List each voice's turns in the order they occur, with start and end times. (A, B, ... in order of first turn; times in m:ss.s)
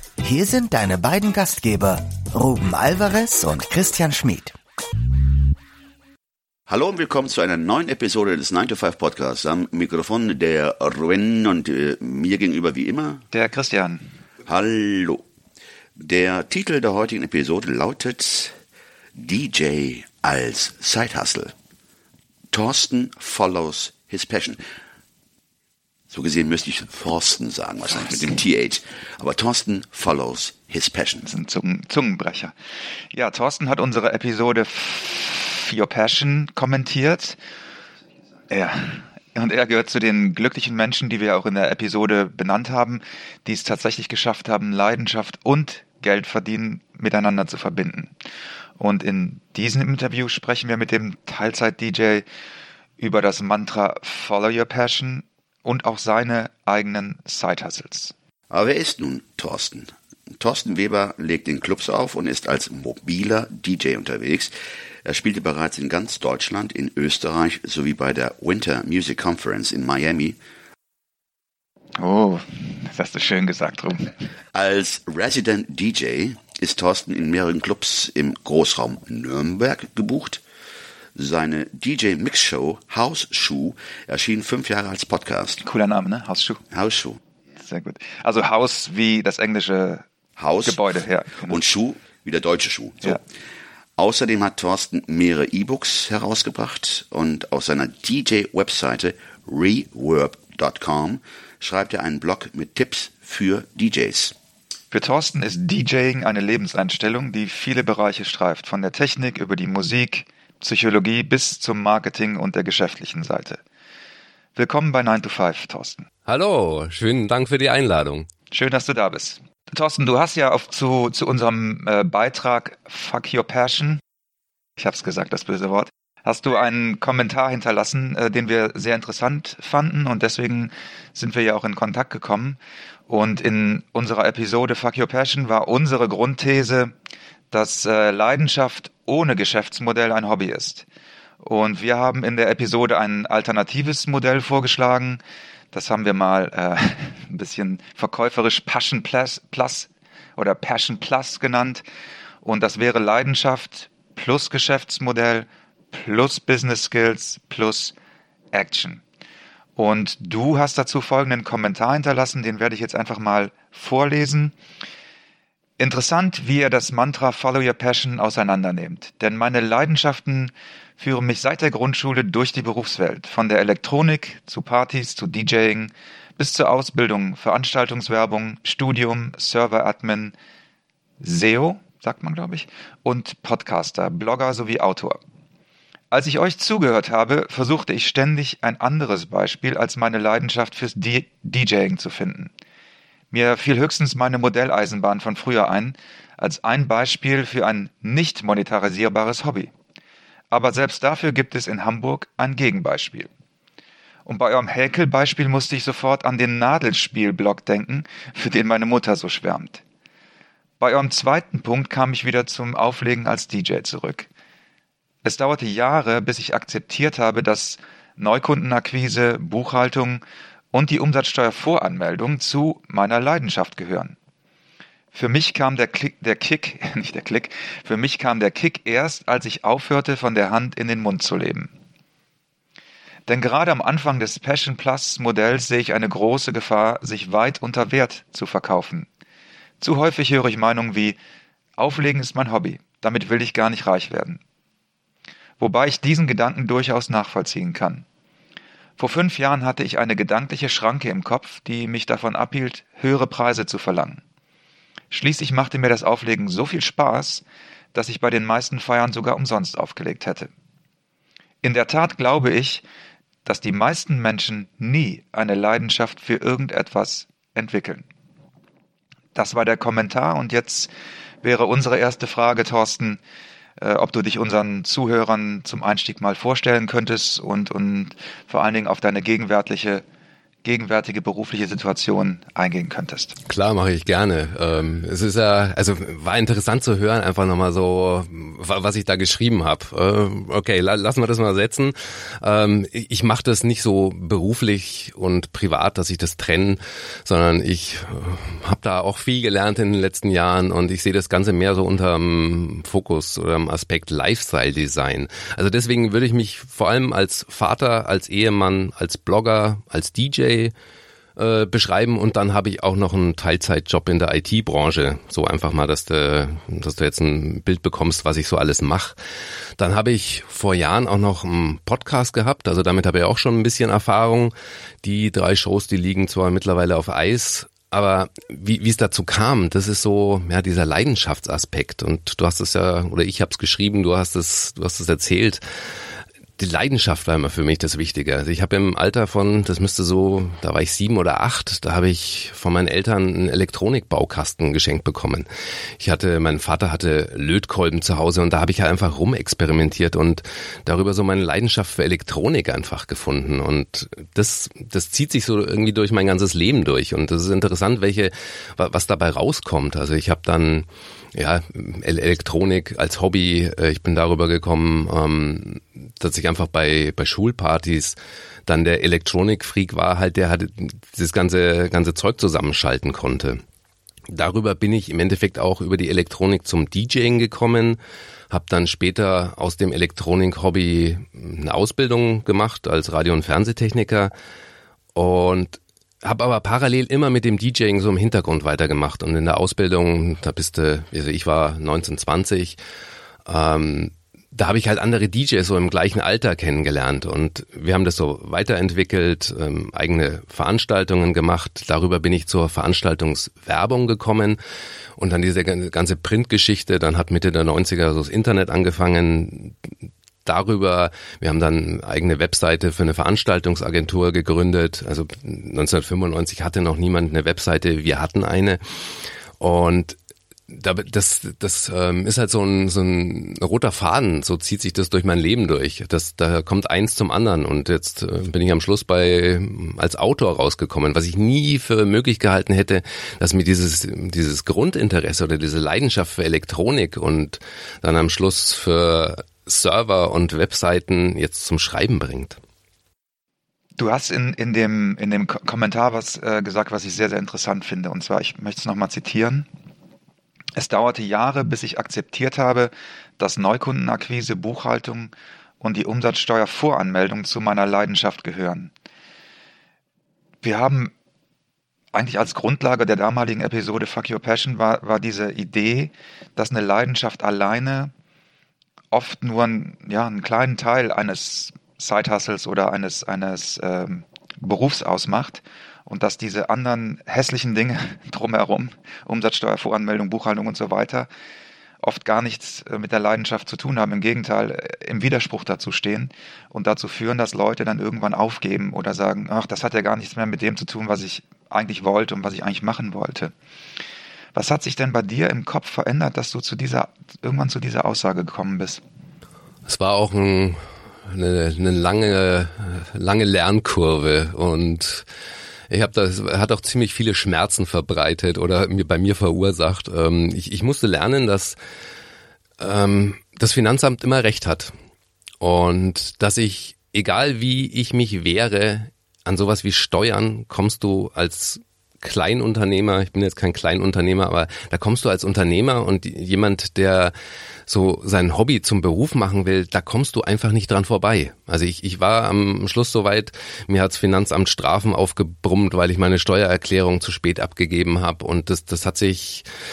0:00.2-0:04.5 A
0:06.7-0:13.2 B
0:13.3-0:14.0 C
0:14.4-0:15.2 B
0:16.0-0:18.5 B
0:19.1-0:21.5 B
0:22.5-0:24.6 B
0:26.1-0:31.3 B
0:31.2-0:32.5 C
0:33.1-0:37.4 C
0:38.5-0:48.1 C
0:48.8-0:52.2 C
0:53.0-0:58.1 C
0:58.5-1:04.5 B
1:05.0-1:10.4 B
1:12.0-1:14.1 C
1:14.5-1:20.4 B
1:21.2-1:25.6 B
1:25.6-1:26.6 C
1:26.7-1:27.2 B
1:27.6-1:30.0 C
1:30.4-1:33.2 B
1:30.6-1:31.6 C
1:34.0-1:44.3 B
1:44.9-1:53.6 C
1:54.6-1:56.0 C
1:56.3-1:58.3 D
1:58.5-2:04.0 C
2:04.8-2:16.9 C
2:17.5-2:20.8 C
2:21.4-2:25.2 C
2:25.7-2:31.8 C
2:32.4-2:37.9 C
2:38.5-2:39.0 C
2:39.8-2:44.5 C
2:45.8-3:00.3 C
3:01.2-3:05.2 C
3:06.1-3:12.5 C
3:13.3-3:19.7 C
3:20.5-3:23.3 C
3:24.2-3:29.8 C
3:30.8-3:34.3 C
3:35.2-3:44.2 C
3:45.1-3:51.7 C
3:53.3-3:59.1 C
3:59.8-4:01.2 C
4:01.8-4:04.4 C
4:05.6-4:08.0 C
4:09.0-4:14.2 C
4:15.1-4:20.5 C
4:21.6-4:22.8 C
4:23.4-4:28.0 C
4:29.3-4:30.9 C
4:31.4-4:33.2 C
4:33.8-4:40.0 C
4:40.6-4:43.3 C
4:43.5-5:10.7 D
5:11.4-5:19.2 D
5:19.8-5:35.6 D
5:36.6-5:45.5 D
5:46.0-6:13.6 D
6:14.3-6:18.0 D
6:18.5-6:24.3 D
6:25.1-6:32.8 D
6:33.4-6:44.6 D
6:45.2-6:49.8 D
6:50.4-6:58.8 D
6:59.6-7:00.2 D
7:00.7-7:22.6 D
7:24.0-7:29.7 C
7:30.8-7:38.9 C
7:40.6-7:41.1 C
7:42.1-7:48.1 C
7:49.1-8:01.3 C
8:02.0-8:13.5 C
8:14.5-8:19.0 C
8:19.8-8:25.2 D
8:25.9-8:31.8 D
8:32.8-8:34.9 D
8:35.6-8:47.3 D
8:47.9-8:59.7 D